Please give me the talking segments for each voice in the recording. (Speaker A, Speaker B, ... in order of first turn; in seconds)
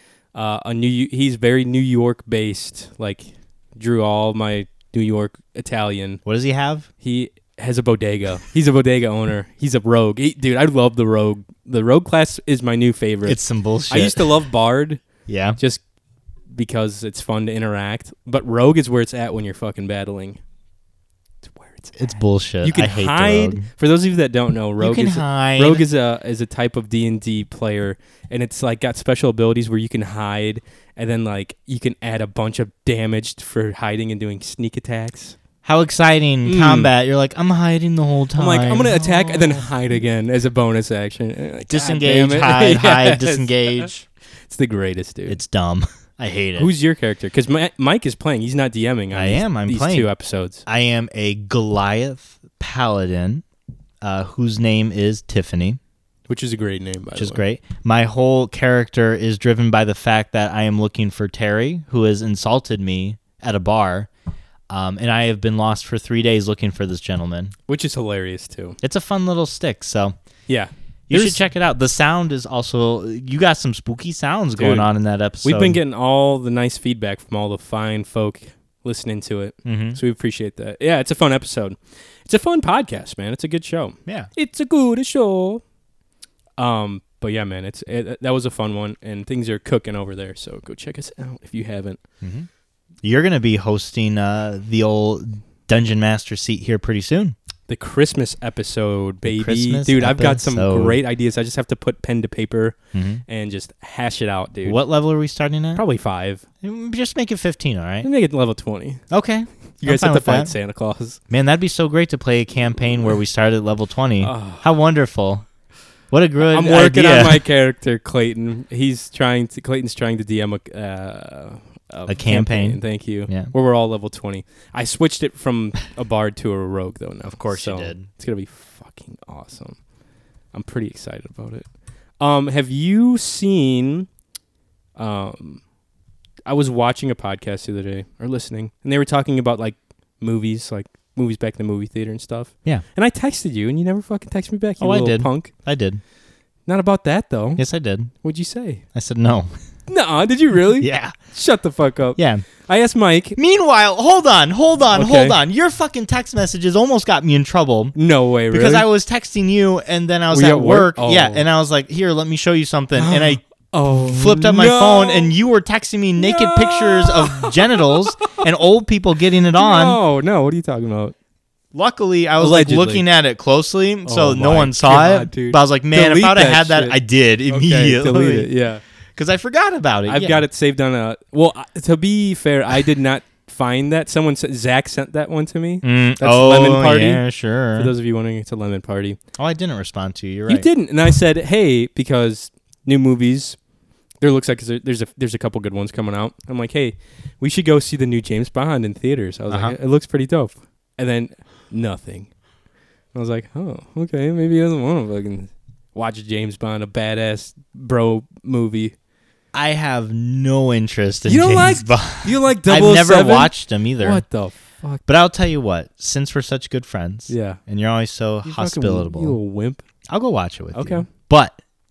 Speaker A: 0.3-6.2, 7.0-15.0, 15.6-15.8, 16.5-20.4, 21.4-22.0, 22.6-35.4, 36.4-36.9, 38.4-43.9, 44.4-45.4, 46.6-50.6, 56.3-57.4, 67.7-68.8, 70.5-71.4, 74.6-74.9, 75.4-85.6, 86.6-92.0, 97.7-104.8, 105.7-106.4, 108.0-109.0, 109.8-111.2, 114.2-114.7, 116.4-129.8, 130.5-134.1, 134.9-135.6, 136.4-145.5, 146.7-147.6, 148.2-148.8, 149.9-153.4, 154.9-155.4, 157.9-158.9, 160.3-161.4, 163.0-165.3, 166.2-168.0, 169.5-171.1, 172.4-173.0, 174.0-178.8, 180.1-187.2, 187.7-189.2, 190.5-193.6, 194.2-202.4, 203.1-208.9, 211.2-215.0, 217.3-217.6, 218.4-219.8, 220.7-221.1
Speaker B: 6.2-6.9, 13.2-14.3, 15.3-15.6, 22.0-23.7, 24.8-25.8, 35.6-39.6, 41.7-44.0, 45.3-46.7, 49.1-50.1, 50.6-53.4, 54.0-55.8, 57.1-64.1, 64.7-67.5, 68.8-70.2, 71.1-75.8, 79.6-80.0, 92.2-92.5, 93.0-97.3, 99.2-101.0, 102.9-103.2, 104.6-105.8, 106.6-108.1, 109.1-110.5, 111.3-115.5, 116.1-117.4, 122.1-123.5, 127.2-128.1, 144.8-146.0, 147.6-148.1, 148.9-149.5, 150.8-151.2, 152.2-152.5, 153.3-157.9, 158.5-163.4, 164.0-170.0, 171.7-178.5, 179.1-180.4, 185.8-187.9, 189.4-190.7, 199.5-199.8, 209.5-214.2, 215.1-219.4, 220.1-221.6